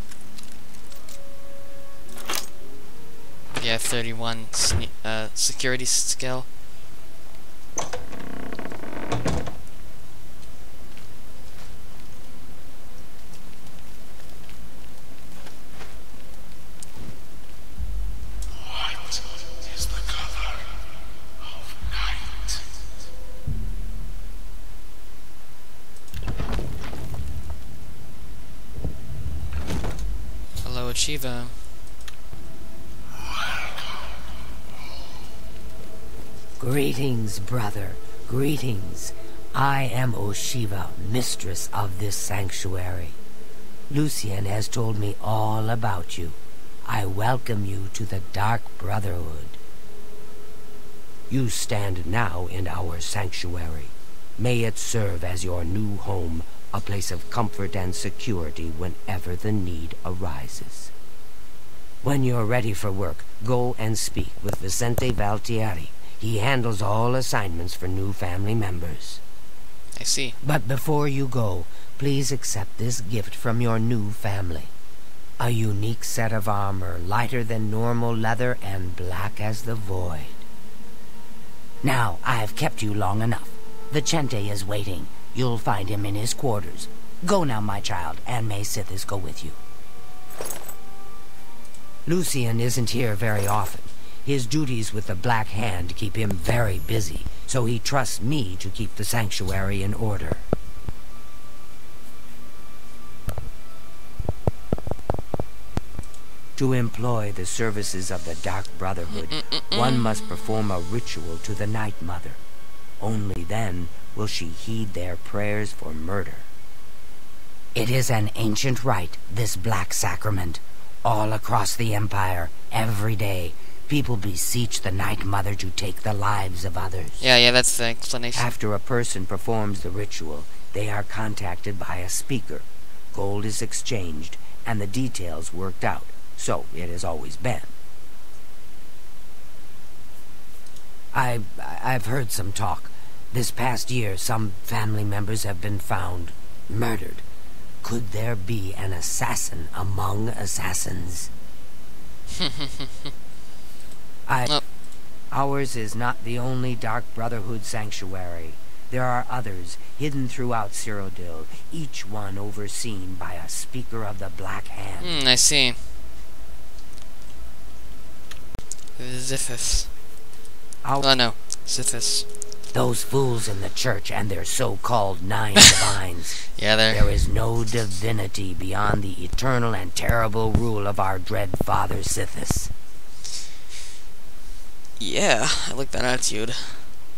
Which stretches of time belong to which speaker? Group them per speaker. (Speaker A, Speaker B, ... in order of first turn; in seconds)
Speaker A: 3.6-6.5, 30.6-31.5, 70.0-70.3, 109.1-110.1, 127.2-128.5, 152.4-152.9, 165.0-165.8, 169.0-169.9, 171.0-172.2, 176.5-177.2, 185.0-186.9
Speaker B: 36.6-43.2, 43.9-49.6, 51.3-60.9, 62.0-69.2, 70.4-74.7, 75.4-80.4, 81.8-89.6, 92.0-100.4, 106.6-112.4, 113.0-116.5, 117.7-127.2, 128.3-137.7, 141.1-147.2, 147.8-151.3, 154.3-154.6, 155.3-165.2, 172.7-182.7